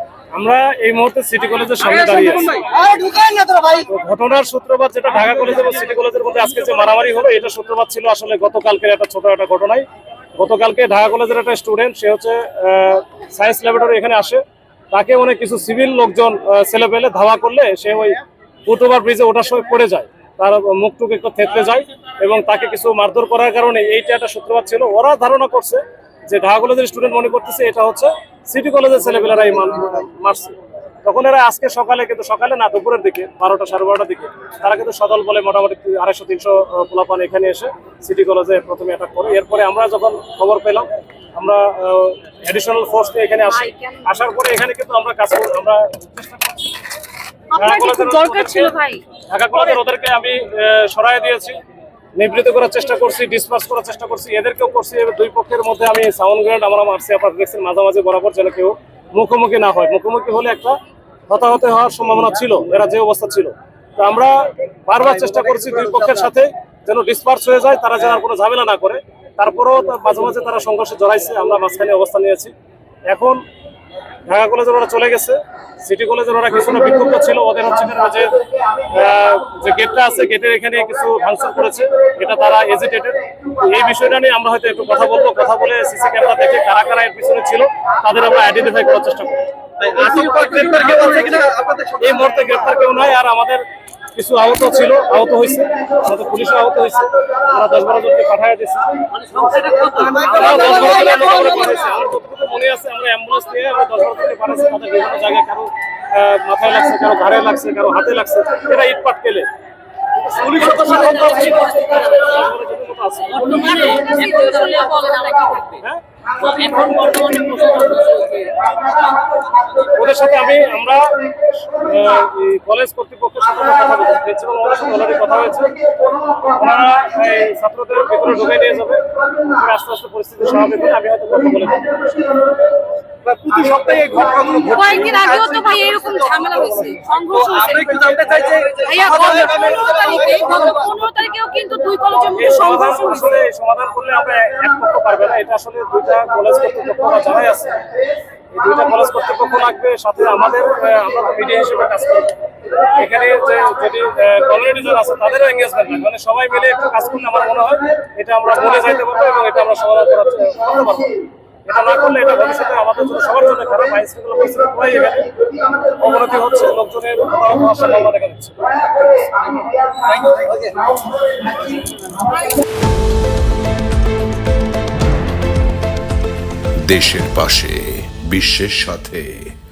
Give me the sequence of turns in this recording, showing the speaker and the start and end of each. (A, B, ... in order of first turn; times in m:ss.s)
0:00.3-0:02.6 A
0:02.4-0:03.8 B
0:03.8-0:09.8 A
0:10.4-0:46.7 A
0:43.5-0:44.1 C
0:47.5-0:49.0 C
0:47.6-0:51.6 A
0:52.1-1:00.7 A
1:01.3-1:12.5 A
1:13.1-1:13.4 A
1:14.3-1:31.4 A
1:29.8-1:32.3 B
1:32.0-1:33.6 A
1:34.1-1:38.9 A
1:39.6-1:41.5 B
1:39.6-1:40.1 C
1:40.2-1:49.5 A
1:50.2-1:53.9 A
1:50.4-1:51.3 B
1:53.3-1:55.8 C
1:56.4-1:58.6 C
1:59.8-2:01.2 A
2:01.7-2:05.8 A
2:06.4-2:11.9 A
2:13.2-2:16.5 B
2:14.6-2:23.4 C
2:17.3-2:20.7 B
2:22.3-2:27.9 A
2:28.5-2:32.3 A
2:32.9-2:45.3 A
2:45.8-2:49.2 A
2:49.9-2:50.8 B
2:56.8-2:59.5 D